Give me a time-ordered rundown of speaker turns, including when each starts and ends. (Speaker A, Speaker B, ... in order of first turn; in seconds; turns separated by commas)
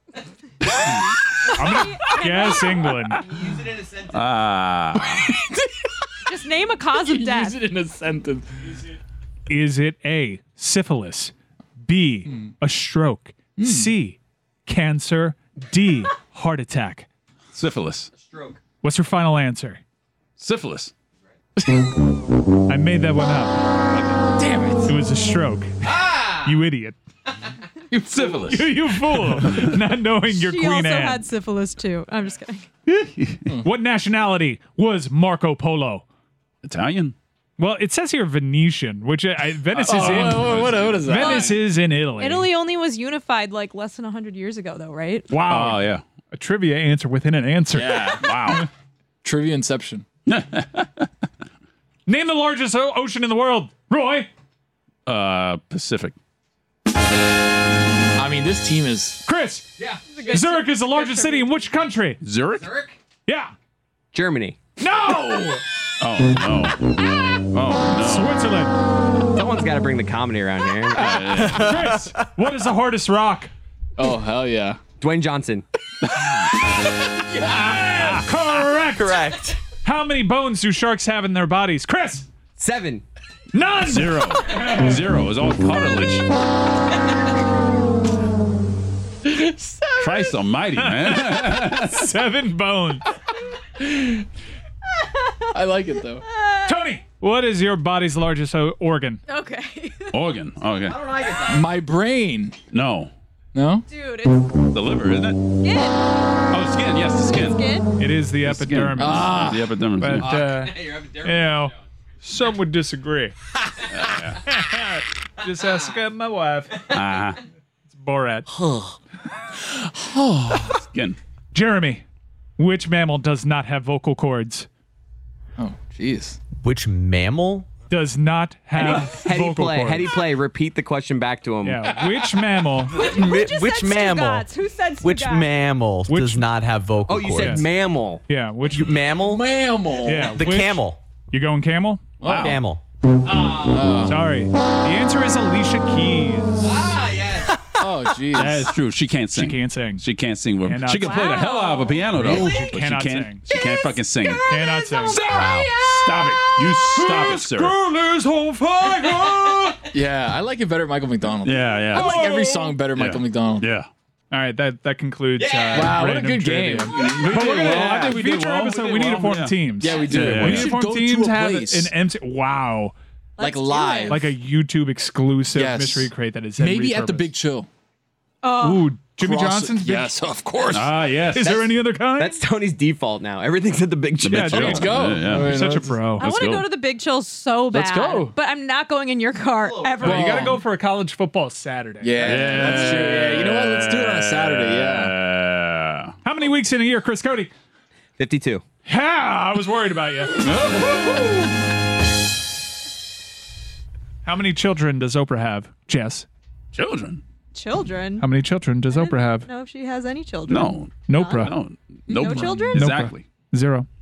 Speaker A: 0.7-1.1, Speaker B: 1.6-3.2, Speaker C: 1.6-2.9, Speaker D: 3.2-4.2, Speaker A: 4.1-5.4, Speaker E: 5.0-5.7, Speaker C: 6.3-7.6, Speaker E: 7.0-8.7, Speaker B: 9.5-11.3, Speaker B: 11.8-17.1, Speaker E: 13.6-13.9, Speaker A: 17.5-18.1, Speaker D: 18.2-18.6, Speaker B: 18.8-19.8, Speaker A: 20.4-20.9, Speaker E: 21.6-21.9, Speaker B: 22.7-23.7, Speaker E: 24.4-24.9, Speaker B: 24.8-27.0, Speaker A: 27.9-29.8, Speaker B: 28.4-31.2, Speaker C: 30.3-32.7, Speaker A: 32.9-33.5, Speaker B: 33.6-36.0, Speaker A: 36.6-37.1, Speaker B: 37.6-42.5, Speaker E: 39.8-41.5, Speaker A: 39.9-41.0, Speaker C: 41.1-41.6, Speaker C: 42.2-45.3, Speaker B: 45.3-48.7, Speaker A: 45.4-46.0, Speaker E: 47.7-48.2, Speaker A: 48.2-48.6, Speaker E: 49.2-50.0, Speaker A: 50.3-51.1, Speaker B: 52.0-54.3, Speaker A: 55.0-56.1, Speaker E: 58.1-59.2, Speaker B: 59.2-59.7, Speaker D: 59.8-60.2, Speaker C: 60.0-61.7, Speaker B: 60.3-62.2, Speaker A: 62.2-62.8, Speaker D: 62.6-62.9, Speaker B: 63.3-63.5, Speaker D: 64.1-64.6, Speaker B: 64.8-65.6, Speaker A: 66.0-68.4, Speaker B: 68.0-68.7, Speaker D: 69.3-71.5, Speaker A: 71.0-72.0, Speaker B: 71.4-73.5, Speaker E: 74.0-74.8, Speaker D: 75.0-75.6, Speaker A: 76.1-76.5, Speaker E: 77.5-77.8, Speaker A: 77.7-78.2, Speaker B: 77.9-79.2, Speaker F: 78.9-79.6, Speaker B: 79.8-82.3, Speaker D: 82.6-83.0, Speaker B: 83.5-84.9, Speaker A: 83.8-86.2, Speaker E: 89.2-90.3, Speaker A: 90.0-92.1, Speaker B: 90.8-93.1, Speaker E: 93.8-94.2, Speaker E: 95.5-96.2, Speaker C: 96.1-96.8, Speaker B: 96.7-99.2, Speaker C: 99.3-100.2, Speaker A: 100.1-101.0, Speaker D: 100.9-101.7, Speaker E: 101.5-102.6, Speaker A: 102.7-103.1, Speaker E: 103.5-103.8, Speaker C: 103.9-104.6, Speaker A: 104.7-105.4, Speaker C: 105.6-106.0, Speaker A: 106.5-107.6, Speaker C: 107.2-107.9, Speaker B: 108.0-113.3, Speaker A: 108.4-110.4, Speaker E: 109.0-110.7, Speaker D: 110.7-111.2, Speaker A: 113.9-114.5, Speaker B: 114.4-116.8, Speaker A: 116.9-117.4, Speaker B: 117.9-118.5, Speaker E: 118.5-119.0, Speaker E: 119.5-120.8, Speaker B: 121.5-122.0, Speaker B: 122.6-124.7, Speaker E: 125.6-126.4, Speaker F: 126.6-127.7, Speaker B: 127.9-130.1, Speaker D: 128.8-131.9, Speaker B: 131.6-133.1, Speaker F: 132.9-134.5, Speaker C: 133.0-135.5, Speaker F: 135.0-137.6, Speaker B: 136.1-136.4, Speaker D: 137.1-138.2, Speaker B: 137.4-137.7, Speaker B: 138.3-138.9, Speaker F: 138.7-139.5, Speaker E: 139.3-140.4, Speaker B: 140.0-142.0, Speaker F: 140.1-141.0, Speaker E: 142.2-142.6, Speaker A: 142.2-142.6, Speaker F: 142.2-142.8, Speaker E: 143.5-144.2, Speaker B: 144.0-146.8, Speaker D: 146.7-147.5, Speaker E: 147.8-148.7, Speaker A: 148.3-154.5, Speaker B: 149.3-150.0, Speaker B: 150.6-151.6, Speaker C: 151.0-152.7, Speaker B: 152.2-153.4, Speaker B: 154.4-155.2, Speaker C: 154.8-155.1, Speaker A: 155.1-157.8, Speaker F: 155.3-155.7, Speaker B: 156.9-159.8, Speaker E: 159.9-163.7, Speaker A: 161.4-162.3, Speaker B: 161.9-162.7, Speaker A: 162.9-163.9, Speaker B: 164.3-172.9, Speaker A: 165.5-165.9, Speaker E: 165.7-168.2, Speaker A: 166.9-170.8, Speaker E: 169.8-171.9, Speaker C: 173.4-174.3, Speaker E: 173.4-174.2, Speaker B: 174.1-177.3, Speaker E: 175.5-177.7, Speaker C: 178.4-178.9, Speaker B: 178.6-180.1, Speaker E: 179.2-180.9, Speaker A: 180.7-181.7, Speaker B: 181.3-182.4, Speaker D: 181.4-185.0, Speaker A: 184.2-185.5, Speaker B: 184.3-186.3, Speaker E: 184.5-186.0, Speaker A: 186.2-186.7, Speaker C: 186.2-190.5, Speaker E: 187.7-188.3, Speaker D: 189.6-190.2, Speaker E: 190.0-190.6, Speaker B: 190.0-193.0, Speaker E: 192.0-195.1, Speaker A: 192.3-196.1, Speaker B: 196.2-197.5, Speaker D: 198.2-198.6, Speaker B: 198.8-200.8, Speaker A: 200.4-201.4, Speaker B: 204.2-206.3, Speaker A: 206.7-207.2, Speaker C: 207.5-208.3, Speaker B: 208.2-209.5, Speaker C: 208.9-211.5, Speaker A: 210.5-213.2, Speaker B: 211.1-211.5, Speaker E: 212.1-212.7, Speaker C: 212.1-212.8, Speaker B: 212.7-213.9